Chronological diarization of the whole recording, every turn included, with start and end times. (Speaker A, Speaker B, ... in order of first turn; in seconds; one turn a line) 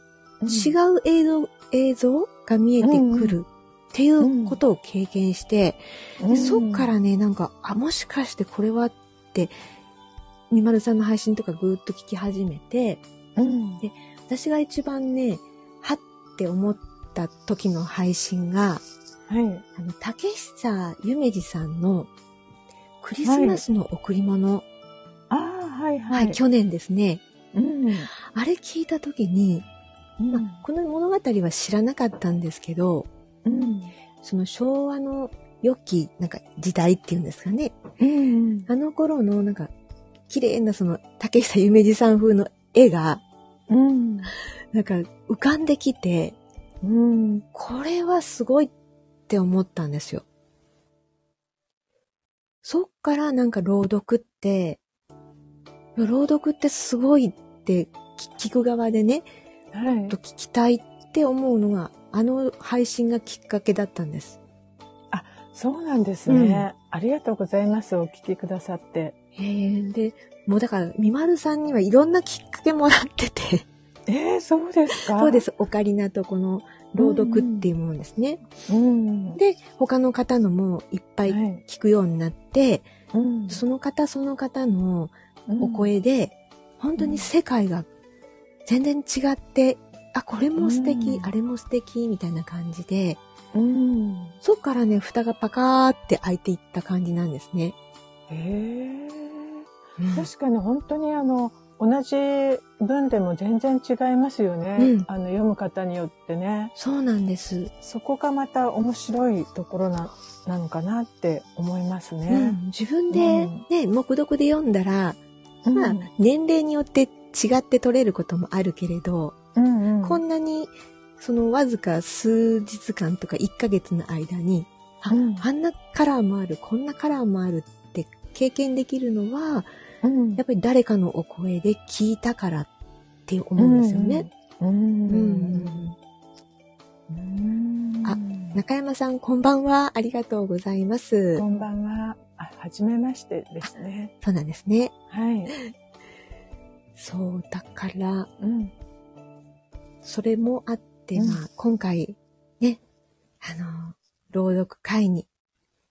Speaker A: 0.4-0.7
Speaker B: 0.5-9.5
Speaker A: 2.8-3.4
Speaker A: 4.2-4.6
Speaker A: 6.2-6.9
Speaker B: 10.5-18.8
Speaker A: 13.4-13.8
Speaker A: 19.3-19.6
Speaker B: 19.8-22.1
Speaker B: 23.0-24.6
Speaker A: 23.2-23.6
Speaker A: 25.3-26.4
Speaker B: 26.1-27.2
Speaker A: 27.5-28.1
Speaker B: 28.1-29.6
Speaker A: 30.2-30.6
Speaker B: 30.3-37.8
Speaker A: 33.4-33.9
Speaker A: 38.0-38.7
Speaker B: 38.7-39.7
Speaker B: 40.3-43.2
Speaker A: 43.7-44.3
Speaker B: 44.7-46.4
Speaker A: 46.8-47.5
Speaker B: 47.5-48.7
Speaker B: 49.3-50.2
Speaker B: 52.6-54.8
Speaker B: 56.0-59.2
Speaker A: 59.7-60.2
Speaker B: 60.1-64.4
Speaker A: 65.1-69.1
Speaker B: 66.3-66.7
Speaker B: 69.3-73.7
Speaker A: 74.1-75.4
Speaker B: 75.1-78.5
Speaker A: 77.0-77.7
Speaker A: 78.7-79.4
Speaker B: 79.3-82.9
Speaker A: 81.3-81.6
Speaker A: 83.1-83.6
Speaker B: 83.5-87.8
Speaker A: 85.5-85.9
Speaker A: 87.0-87.3
Speaker B: 88.7-93.2
Speaker A: 90.6-91.3
Speaker A: 93.5-94.3
Speaker B: 94.4-97.7
Speaker A: 98.3-106.7
Speaker B: 100.0-100.3
Speaker B: 104.8-105.1
Speaker B: 106.8-107.7
Speaker A: 107.8-112.6
Speaker B: 112.3-115.2
Speaker A: 113.1-113.6
Speaker A: 115.7-116.1
Speaker B: 115.7-119.3
Speaker A: 119.5-120.2
Speaker B: 120.0-129.7
Speaker A: 125.1-125.5
Speaker A: 130.0-130.4
Speaker B: 130.4-132.7
Speaker B: 133.3-134.3
Speaker A: 133.6-135.8
Speaker B: 135.1-135.9
Speaker A: 137.1-138.6
Speaker B: 138.0-141.4
Speaker A: 141.4-144.1
Speaker B: 144.2-144.9
Speaker A: 145.1-145.5
Speaker B: 147.0-148.3
Speaker A: 148.4-148.7
Speaker B: 150.0-152.8
Speaker B: 153.4-155.3